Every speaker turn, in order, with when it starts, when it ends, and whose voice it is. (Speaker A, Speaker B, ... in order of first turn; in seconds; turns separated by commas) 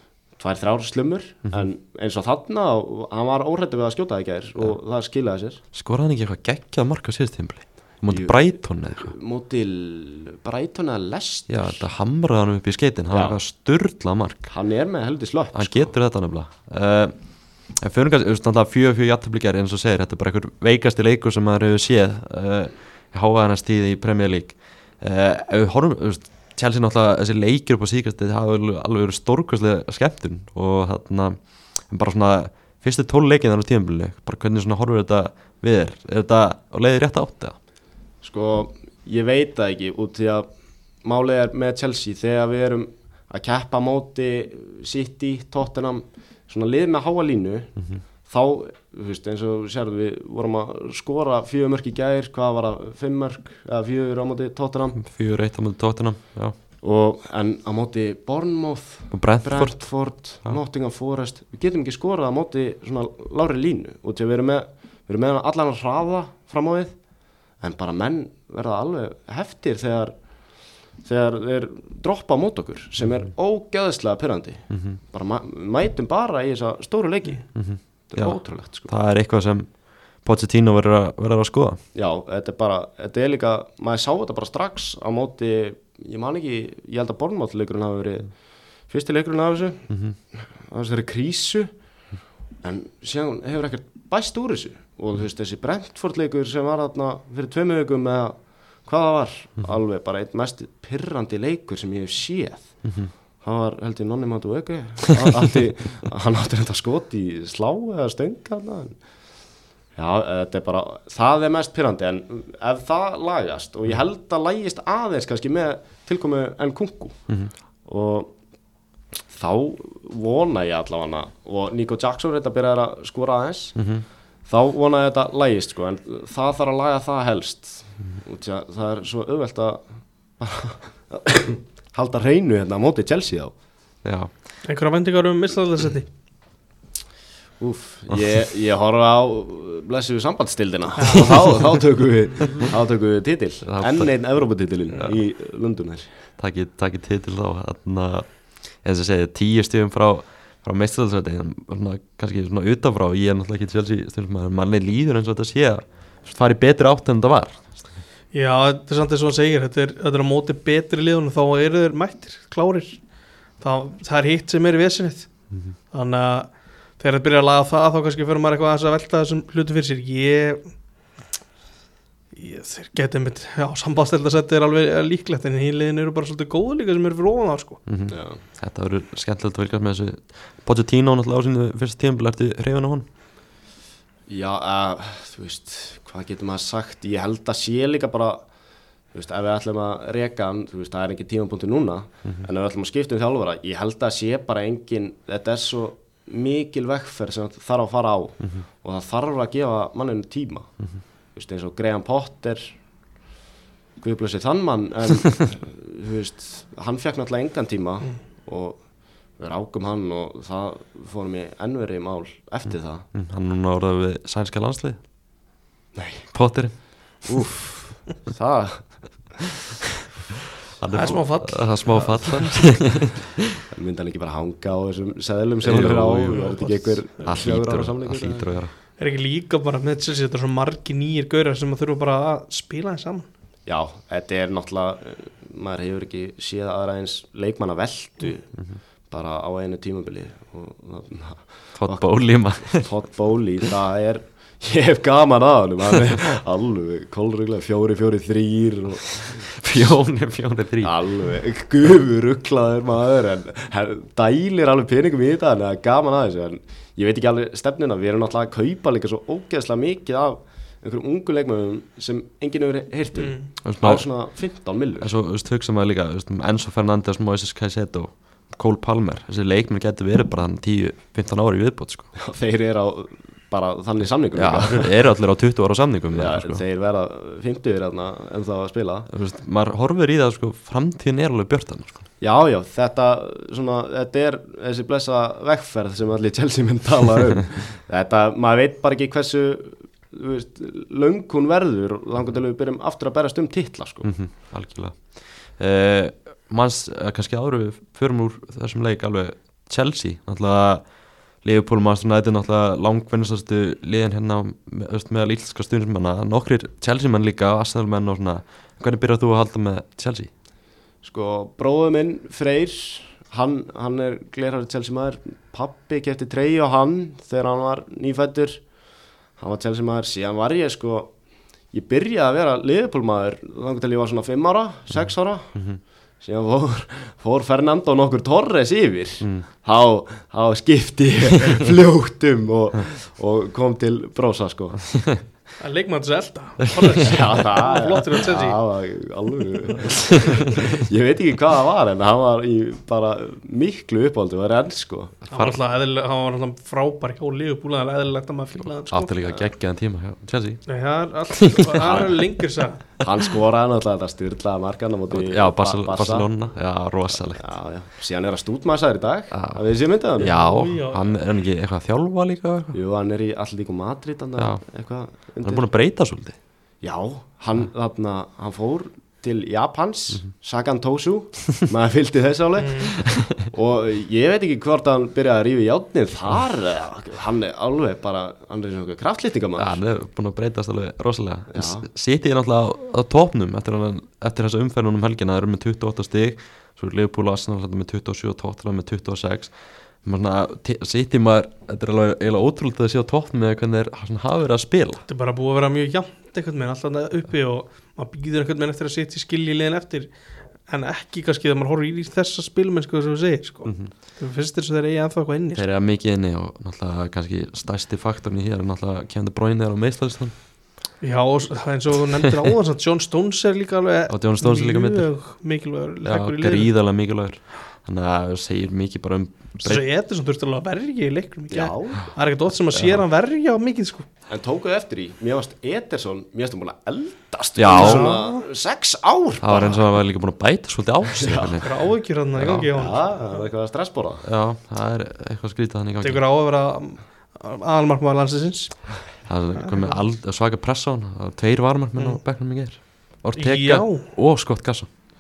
Speaker A: 0.4-5.6, Speaker B: 5.7-9.1, Speaker A: 8.1-11.8, Speaker B: 11.5-14.5, Speaker A: 13.1-13.4, Speaker A: 14.5-15.9, Speaker B: 15.5-37.6, Speaker A: 38.2-40.5, Speaker A: 41.0-55.0, Speaker B: 55.0-56.6, Speaker A: 56.8-67.0, Speaker B: 59.1-60.6, Speaker A: 67.6-78.9, Speaker B: 74.7-75.0, Speaker B: 77.5-81.8, Speaker A: 81.9-91.7, Speaker B: 89.9-90.2, Speaker A: 92.6-109.0, Speaker B: 102.8-103.1, Speaker A: 109.9-118.4, Speaker A: 119.3-133.6, Speaker B: 123.8-124.1, Speaker B: 134.0-134.3, Speaker C: 134.6-136.1, Speaker A: 137.6-146.3, Speaker C: 141.0-141.8, Speaker B: 143.6-145.2, Speaker B: 146.4-158.0, Speaker C: 158.3-170.8, Speaker C: 172.3-177.8, Speaker B: 177.9-183.1, Speaker A: 178.1-178.4, Speaker A: 184.3-188.5, Speaker A: 189.1-202.9, Speaker A: 204.0-213.1, Speaker B: 212.7-215.1, Speaker A: 215.9-219.4, Speaker B: 216.3-217.3, Speaker B: 220.8-223.4, Speaker C: 220.9-223.1, Speaker A: 223.5-228.6, Speaker B: 225.6-228.7, Speaker C: 226.6-227.3, Speaker C: 229.0-233.3, Speaker A: 233.7-249.6, Speaker B: 241.8-242.9, Speaker B: 249.6-251.1, Speaker A: 250.8-265.1, Speaker C: 263.2-263.5, Speaker B: 263.6-272.1, Speaker A: 272.2-274.9, Speaker B: 274.4-276.6, Speaker A: 276.1-279.1, Speaker B: 279.1-282.0, Speaker A: 282.2-294.1, Speaker B: 294.0-310.3, Speaker A: 311.0-318.7, Speaker A: 319.4-321.2, Speaker A: 321.7-335.2, Speaker B: 324.9-325.8, Speaker B: 329.2-329.5, Speaker C: 335.6-339.0, Speaker A: 337.0-345.2, Speaker B: 345.3-345.6, Speaker C: 345.3-349.1, Speaker B: 348.6-352.2, Speaker A: 349.2-349.5, Speaker C: 350.7-352.9, Speaker A: 353.0-356.4, Speaker B: 355.1-357.6, Speaker A: 357.1-360.5, Speaker B: 359.3-362.8, Speaker C: 360.2-361.1, Speaker A: 362.7-365.7, Speaker B: 364.4-366.4, Speaker A: 366.8-379.8, Speaker C: 372.6-373.0, Speaker B: 373.1-373.3, Speaker B: 379.6-395.0, Speaker A: 381.5-381.9, Speaker C: 395.1-405.6, Speaker B: 403.6-403.9, Speaker B: 405.6-410.3, Speaker C: 411.0-416.7, Speaker B: 414.1-415.2, Speaker B: 416.1-419.9, Speaker C: 419.6-424.1, Speaker A: 421.5-422.1, Speaker A: 424.3-429.8, Speaker B: 427.6-428.1, Speaker C: 427.7-428.4, Speaker B: 429.4-432.7, Speaker A: 431.2-431.6, Speaker C: 431.6-433.5, Speaker A: 432.7-434.2, Speaker B: 434.2-436.2, Speaker C: 436.0-440.0, Speaker B: 439.2-444.9, Speaker C: 442.0-442.2, Speaker C: 443.4-444.1